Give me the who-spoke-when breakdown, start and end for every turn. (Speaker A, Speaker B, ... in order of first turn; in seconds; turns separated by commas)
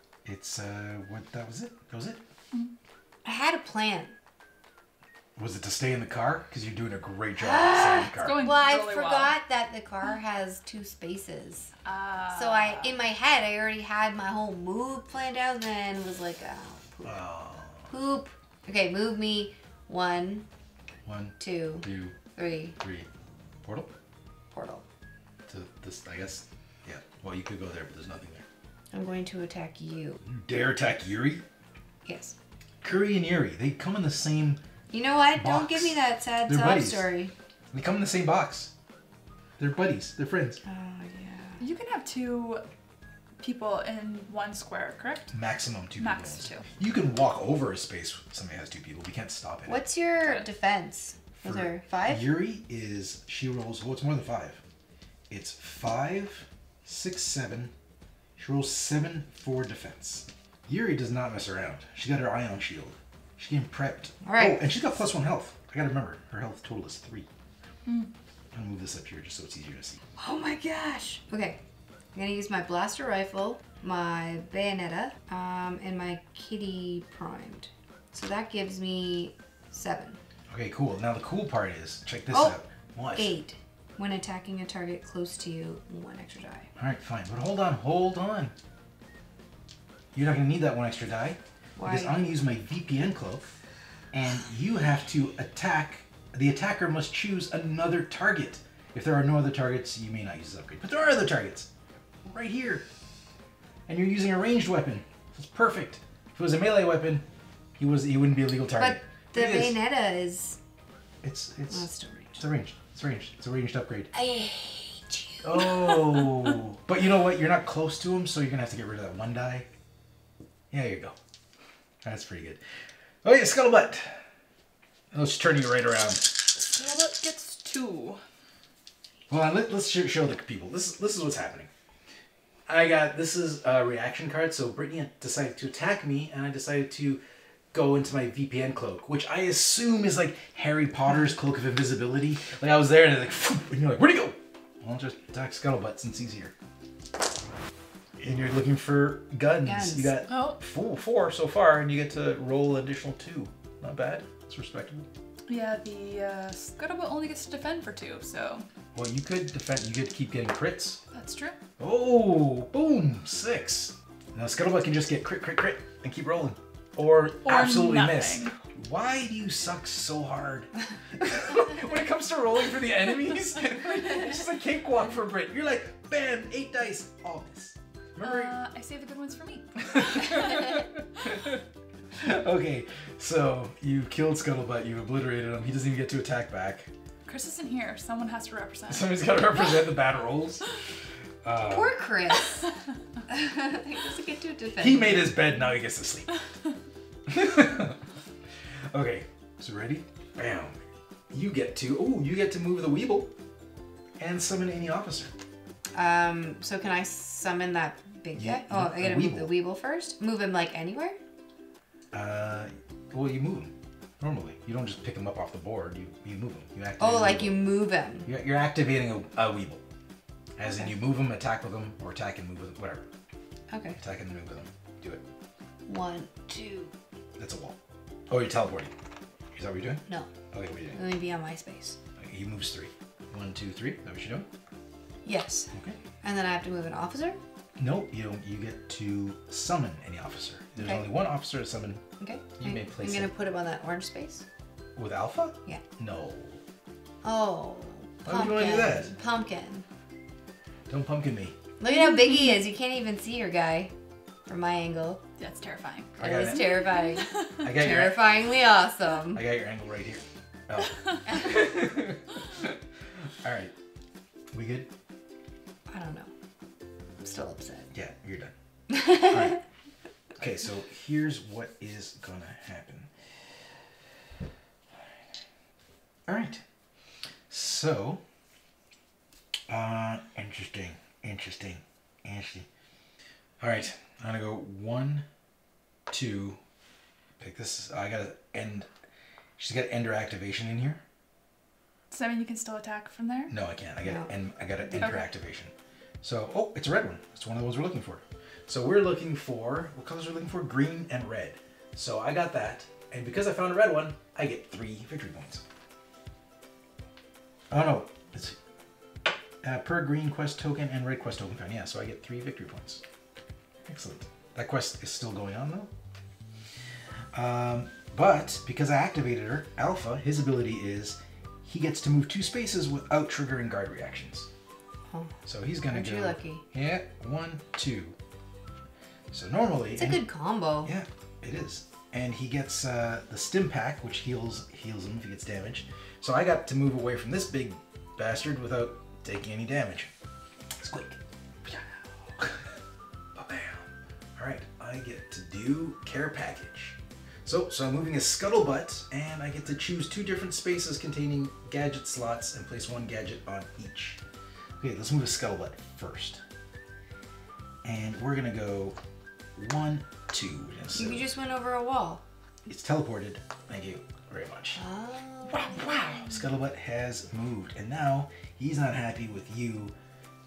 Speaker A: 0.2-2.2, Speaker B: 3.2-4.2, Speaker A: 5.4-8.5, Speaker B: 7.4-11.7, Speaker C: 8.1-9.4, Speaker C: 11.8-13.0, Speaker B: 12.3-17.2, Speaker A: 17.0-17.9, Speaker B: 17.9-20.5, Speaker A: 21.1-22.2, Speaker B: 21.4-22.8, Speaker A: 22.8-23.1, Speaker A: 23.6-23.9, Speaker B: 24.5-24.8, Speaker A: 25.5-28.4, Speaker B: 28.9-30.2, Speaker A: 30.2-31.4, Speaker B: 32.1-32.4, Speaker A: 32.8-34.6, Speaker B: 34.9-37.3, Speaker A: 35.4-37.1, Speaker A: 37.7-38.7, Speaker A: 39.6-40.6, Speaker B: 40.6-41.6, Speaker C: 41.6-42.7, Speaker C: 43.4-45.4, Speaker A: 45.3-49.9, Speaker C: 46.0-46.7, Speaker B: 49.7-52.2, Speaker A: 51.4-54.6, Speaker A: 55.3-57.7, Speaker A: 58.4-67.3, Speaker B: 64.2-64.7, Speaker C: 67.9-68.1, Speaker A: 68.5-70.0, Speaker B: 70.2-71.6, Speaker B: 72.2-80.2, Speaker A: 80.5-83.3, Speaker B: 82.3-82.6, Speaker B: 83.1-86.7, Speaker A: 86.8-88.5, Speaker A: 90.1-93.5, Speaker B: 91.8-92.2, Speaker A: 94.1-101.7, Speaker A: 102.2-102.8, Speaker A: 103.9-107.2, Speaker A: 107.8-109.8, Speaker B: 108.8-110.6, Speaker A: 111.2-114.1, Speaker B: 111.7-112.4, Speaker B: 114.1-116.3, Speaker A: 115.4-119.7, Speaker A: 120.7-121.2, Speaker A: 122.0-122.6, Speaker A: 123.2-124.2, Speaker A: 125.1-126.5, Speaker C: 126.5-128.2, Speaker A: 129.3-131.7, Speaker A: 132.7-137.2, Speaker A: 137.7-146.5, Speaker A: 148.2-155.1, Speaker B: 149.6-150.2, Speaker C: 150.3-150.6, Speaker C: 155.5-158.7, Speaker A: 158.9-161.0, Speaker C: 161.1-161.6, Speaker A: 161.8-178.6, Speaker C: 167.4-168.5, Speaker C: 178.2-181.3, Speaker A: 179.8-186.9, Speaker C: 187.2-189.8, Speaker A: 188.9-190.7, Speaker A: 191.4-192.0, Speaker B: 191.7-192.7, Speaker B: 193.3-195.3, Speaker A: 194.8-196.3, Speaker A: 197.3-198.0, Speaker A: 198.9-200.8, Speaker A: 201.3-203.3, Speaker A: 204.2-205.3, Speaker B: 205.9-211.2, Speaker A: 208.4-209.5, Speaker A: 212.1-217.7, Speaker B: 217.0-218.3, Speaker A: 218.3-219.8, Speaker A: 220.6-223.1, Speaker B: 223.7-224.0, Speaker A: 224.0-225.2, Speaker B: 225.9-226.9, Speaker A: 227.4-227.8, Speaker A: 228.3-228.9, Speaker A: 229.5-231.0, Speaker B: 230.9-232.0, Speaker A: 232.2-234.5, Speaker B: 235.2-237.4, Speaker A: 235.7-236.0, Speaker A: 237.8-242.0, Speaker B: 240.8-241.1, Speaker B: 242.2-244.4, Speaker A: 242.6-243.3, Speaker A: 245.0-246.6, Speaker B: 247.2-249.9, Speaker A: 248.2-249.2, Speaker A: 250.9-251.6, Speaker B: 251.8-253.9, Speaker B: 254.5-255.2, Speaker C: 255.4-257.6, Speaker B: 256.2-259.4, Speaker A: 256.2-256.9, Speaker A: 257.6-258.5, Speaker A: 259.3-262.8, Speaker A: 263.4-263.8, Speaker A: 264.5-264.9, Speaker B: 265.9-266.3, Speaker B: 267.2-267.9, Speaker A: 267.9-268.5, Speaker B: 268.9-269.6, Speaker A: 269.1-269.6, Speaker A: 270.4-273.1, Speaker A: 276.3-276.6, Speaker A: 277.5-278.2, Speaker A: 279.7-282.7, Speaker A: 283.6-285.3, Speaker A: 286.1-286.6, Speaker A: 287.4-288.9, Speaker A: 289.6-291.0, Speaker C: 292.1-293.5, Speaker A: 293.5-305.6, Speaker B: 294.0-294.3, Speaker B: 294.9-295.2, Speaker C: 295.0-295.3, Speaker A: 307.7-308.6, Speaker A: 309.6-313.0, Speaker A: 313.9-315.9, Speaker A: 317.3-324.5, Speaker B: 325.1-325.4, Speaker A: 325.5-328.2, Speaker B: 325.9-326.6, Speaker A: 329.3-330.2, Speaker B: 329.9-330.9, Speaker A: 330.8-340.1, Speaker A: 340.8-342.8, Speaker A: 343.4-354.2, Speaker A: 354.8-356.4, Speaker A: 357.8-359.0, Speaker A: 359.6-361.3, Speaker B: 360.9-362.2, Speaker A: 362.7-364.8, Speaker B: 364.8-365.8, Speaker A: 365.5-369.9